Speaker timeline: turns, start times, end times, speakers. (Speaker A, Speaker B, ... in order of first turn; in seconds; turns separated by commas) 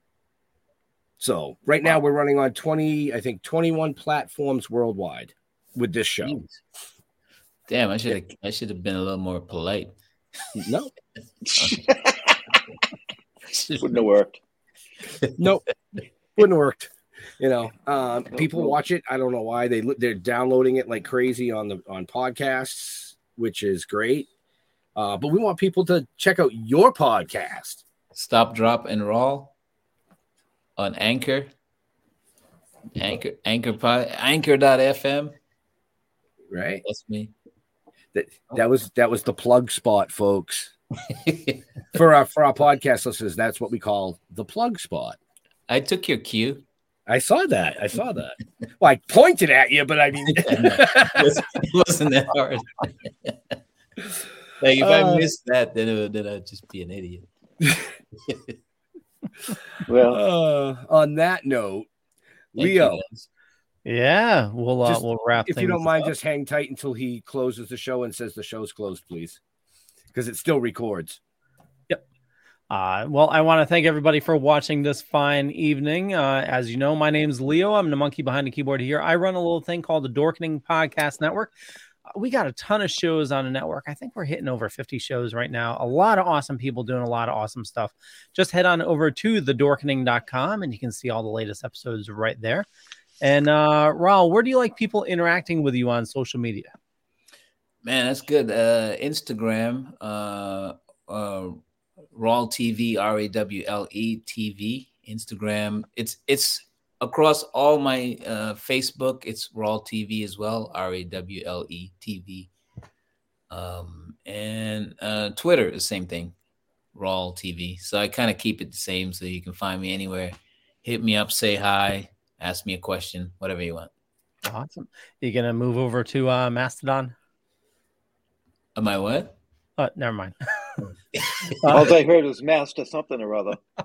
Speaker A: 1.2-6.4, Speaker B: 6.2-6.5, Speaker B: 7.7-9.9, Speaker A: 10.6-10.9, Speaker C: 11.4-12.4, Speaker B: 13.5-14.0, Speaker C: 13.8-14.4, Speaker A: 15.4-15.7, Speaker A: 16.4-24.3, Speaker C: 18.3-18.8, Speaker A: 24.9-27.8, Speaker B: 28.1-29.5, Speaker B: 30.8-31.5, Speaker B: 33.0-35.4, Speaker A: 36.5-36.8, Speaker B: 36.9-37.3, Speaker A: 38.1-40.7, Speaker B: 41.1-41.6, Speaker A: 42.0-45.2, Speaker B: 45.7-46.6, Speaker A: 47.1-51.4, Speaker B: 50.3-53.5, Speaker B: 54.6-57.3, Speaker A: 54.8-55.3, Speaker B: 58.3-58.5, Speaker C: 59.9-60.2, Speaker A: 60.1-61.9, Speaker A: 62.5-63.0, Speaker B: 62.6-63.3, Speaker D: 63.9-66.1, Speaker A: 64.8-69.4, Speaker A: 70.1-71.2, Speaker D: 72.7-81.5, Speaker D: 82.2-92.7, Speaker D: 93.2-96.7, Speaker B: 97.8-101.6, Speaker B: 102.1-112.5, Speaker B: 113.5-116.3, Speaker B: 117.0-123.9, Speaker D: 124.5-127.2, Speaker B: 128.8-129.4, Speaker D: 129.8-130.9, Speaker B: 131.2-131.7, Speaker C: 131.7-133.6